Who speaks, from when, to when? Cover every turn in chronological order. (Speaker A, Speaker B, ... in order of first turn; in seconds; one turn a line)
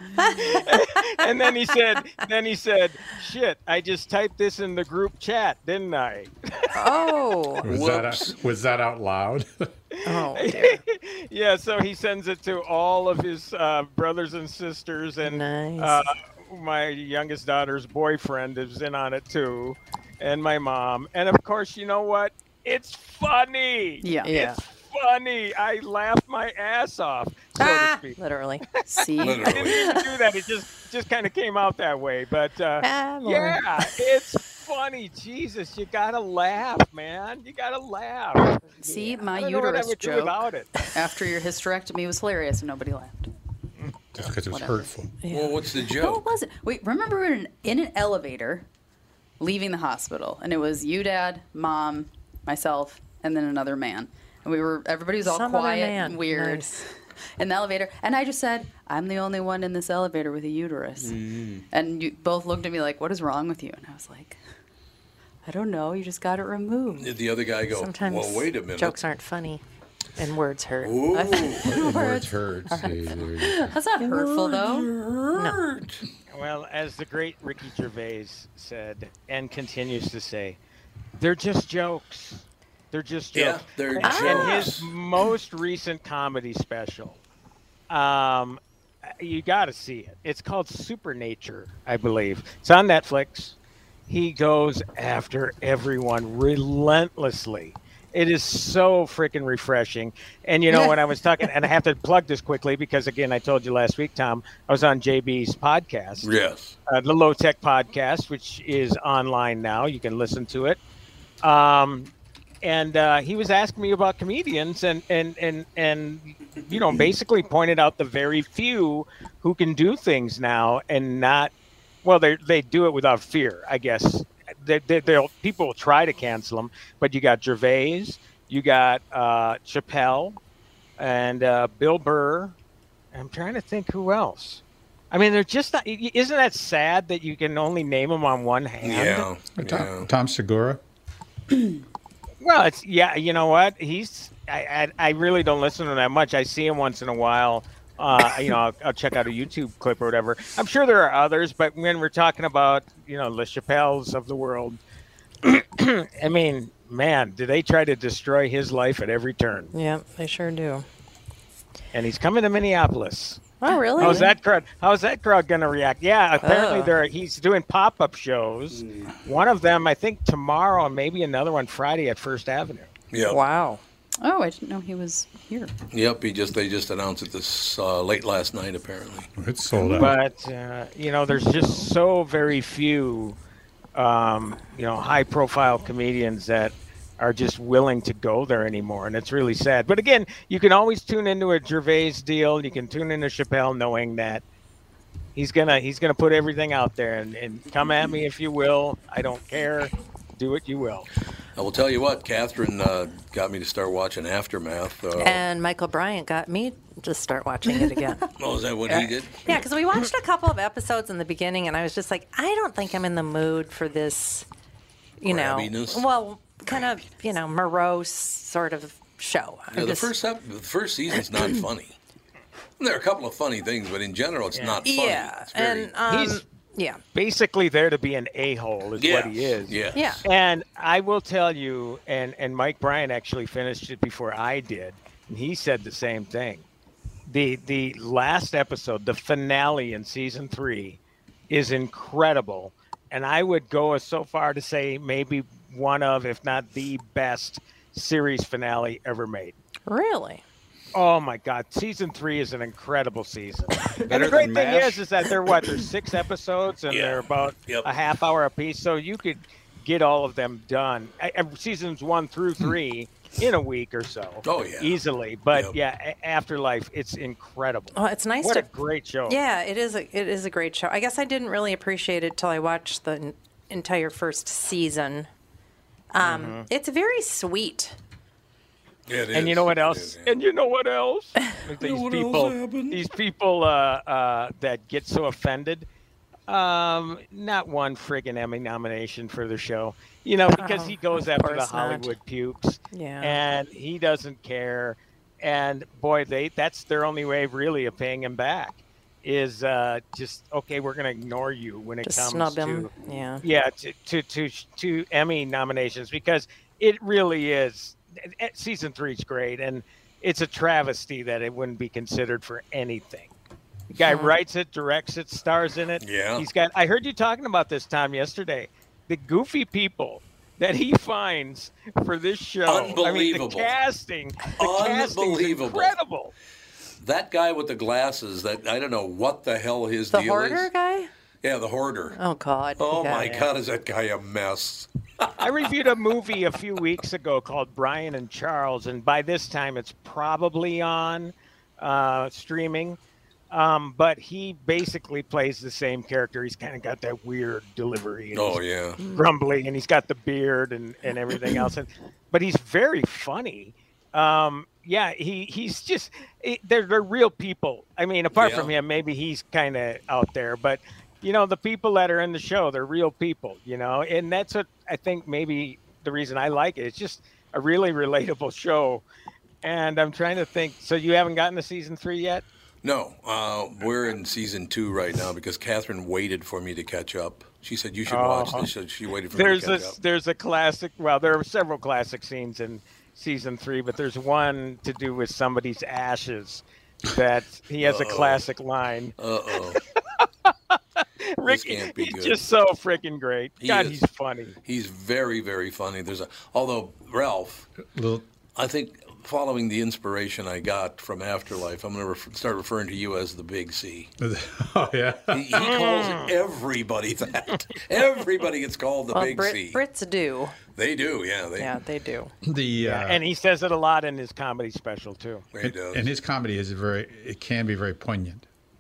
Speaker A: 0.2-0.6
Speaker B: 0.4-6.8
Speaker A: 6.7-7.7
Speaker C: 7.6-9.7
Speaker D: 7.7-8.4
Speaker B: 9.9-28.2
Speaker A: 10.1-10.8
Speaker A: 15.2-16.1
Speaker E: 24.0-24.4
Speaker A: 24.2-24.6
Speaker A: 27.6-28.6
Speaker B: 28.8-40.8
Speaker E: 28.9-29.5
Speaker D: 29.2-30.0
Speaker A: 29.6-30.1
Speaker A: 32.8-33.9
Speaker E: 38.7-43.3
Speaker C: 44.2-45.1
Speaker E: 44.2-44.9
Speaker A: 45.2-45.5
Speaker D: 45.3-46.2
Speaker E: 45.9-48.7
Speaker E: 49.4-56.9
Speaker A: 55.2-56.8
Speaker E: 57.4-61.2
Speaker F: 61.0-61.7
Speaker E: 61.7-64.4
Speaker E: 65.5-67.1
Speaker D: 67.0-69.0
Speaker A: 67.7-69.6
Speaker A: 70.2-71.6
Speaker D: 70.8-71.8
Speaker C: 71.7-73.7
Speaker E: 71.8-74.9
Speaker D: 74.1-76.0
Speaker A: 75.3-75.7
Speaker B: 76.3-80.6
Speaker B: 81.2-87.2
Speaker D: 83.3-84.9
Speaker A: 84.0-84.7
Speaker B: 87.9-93.5
Speaker B: 94.1-106.3
Speaker A: 100.7-101.0
Speaker D: 106.2-106.8
Speaker B: 106.9-110.8
Speaker B: 111.4-112.1
Speaker B: 112.6-121.5
Speaker B: 122.0-130.4
Speaker B: 131.0-132.5
Speaker B: 133.1-139.3
Speaker D: 138.8-140.1
Speaker C: 139.6-140.8
Speaker B: 142.4-154.8
Speaker B: 155.4-159.7
Speaker A: 159.7-160.8
Speaker B: 161.9-172.9
Speaker A: 163.6-164.3
Speaker E: 164.0-164.3
Speaker A: 166.4-166.9
Speaker F: 168.7-169.1
Speaker D: 173.1-173.4
Speaker A: 173.3-173.8
Speaker E: 174.2-175.7
Speaker D: 175.9-179.3
Speaker C: 179.4-180.2
Speaker B: 179.9-183.4
Speaker E: 181.6-181.8
Speaker B: 183.9-194.4
Speaker B: 195.3-201.1
Speaker D: 201.6-205.4
Speaker A: 205.2-208.3
Speaker D: 208.4-209.6
Speaker A: 208.9-214.5
Speaker A: 215.2-220.1
Speaker D: 215.2-216.1
Speaker D: 219.7-222.0
Speaker D: 222.8-225.9
Speaker A: 224.8-227.0
Speaker B: 226.1-226.4
Speaker B: 227.2-236.6
Speaker D: 229.0-230.2
Speaker A: 229.9-230.2
Speaker B: 237.3-241.0
Speaker B: 241.5-249.6
Speaker A: 249.9-250.4
Speaker B: 250.9-269.4
Speaker F: 254.1-255.0
Speaker D: 256.9-257.9
Speaker D: 264.4-265.0
Speaker A: 267.9-268.7
Speaker A: 269.3-275.3
Speaker A: 276.1-277.9
Speaker B: 276.2-276.7
Speaker D: 279.1-280.4
Speaker B: 279.3-285.9
Speaker D: 281.8-283.0
Speaker B: 286.5-313.3
Speaker A: 290.6-292.1
Speaker A: 292.9-293.4
Speaker A: 302.0-303.4
Speaker B: 313.9-326.3
Speaker A: 314.0-314.3
Speaker D: 316.0-316.5
Speaker D: 322.7-323.7
Speaker D: 324.6-325.9
Speaker D: 327.0-330.7
Speaker A: 330.1-331.1
Speaker D: 331.4-332.2
Speaker A: 332.1-333.5
Speaker D: 332.8-335.4
Speaker B: 335.4-343.0
Speaker B: 343.5-348.6
Speaker D: 348.3-349.0
Speaker B: 349.1-369.0
Speaker D: 358.3-358.7
Speaker B: 369.6-372.4
Speaker D: 372.8-380.0
Speaker B: 378.1-378.7
Speaker B: 379.3-390.8
Speaker D: 387.8-388.4
Speaker D: 389.2-389.8
Speaker B: 391.3-394.6
Speaker D: 391.4-392.4
Speaker D: 393.6-394.0
Speaker D: 394.6-397.7
Speaker C: 397.8-398.2
Speaker D: 398.6-404.1
Speaker C: 404.2-405.8
Speaker D: 405.3-409.8
Speaker B: 405.6-406.3
Speaker A: 409.1-410.6
Speaker D: 410.8-411.8
Speaker A: 411.6-412.3
Speaker C: 412.4-413.2
Speaker B: 412.8-415.4
Speaker D: 415.5-416.1
Speaker C: 415.6-418.5